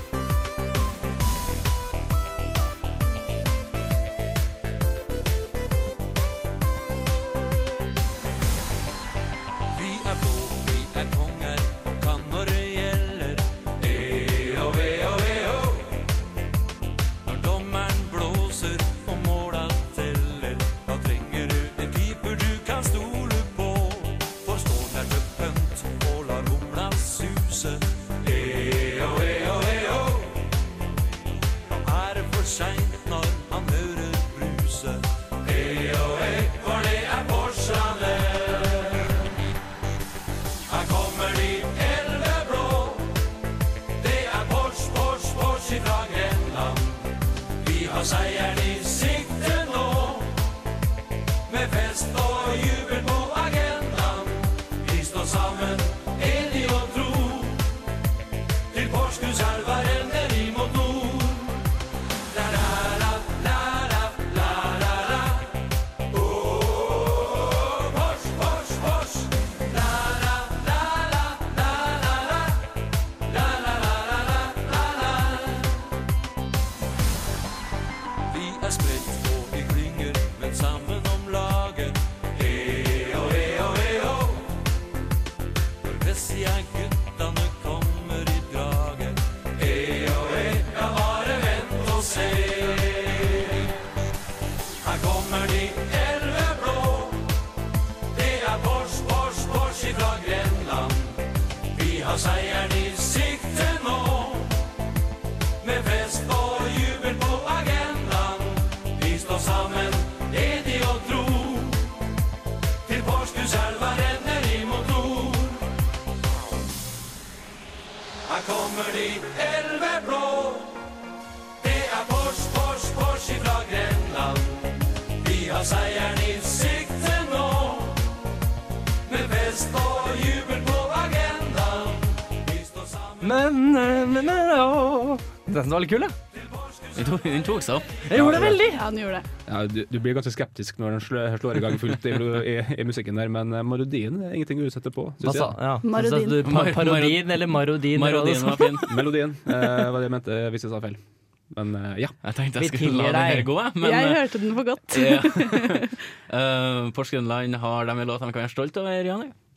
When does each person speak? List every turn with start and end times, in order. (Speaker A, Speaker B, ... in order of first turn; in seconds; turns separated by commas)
Speaker A: 9.7-15.9, Speaker A: 17.2-30.4, Speaker A: 31.8-39.2, Speaker A: 40.7-43.2, Speaker A: 44.0-50.4, Speaker A: 51.5-57.7, Speaker A: 58.7-61.6, Speaker A: 62.3-65.6, Speaker A: 66.1-72.6, Speaker A: 73.2-75.7, Speaker A: 78.3-84.5, Speaker A: 85.8-93.7, Speaker A: 94.8-97.3, Speaker A: 98.1-104.7, Speaker A: 105.6-112.0, Speaker A: 112.8-115.6, Speaker A: 118.2-120.8, Speaker A: 121.6-128.1, Speaker A: 129.1-133.4, Speaker B: 133.2-136.1, Speaker A: 136.3-137.2, Speaker C: 136.9-138.0, Speaker B: 138.1-138.8, Speaker D: 138.1-138.6, Speaker E: 138.5-139.3, Speaker D: 139.4-145.6, Speaker B: 145.2-148.8, Speaker E: 145.8-146.4, Speaker C: 146.4-149.0, Speaker D: 148.9-151.0, Speaker D: 151.5-152.2, Speaker C: 152.2-154.4, Speaker B: 152.6-153.5, Speaker E: 153.8-155.9, Speaker C: 154.9-159.3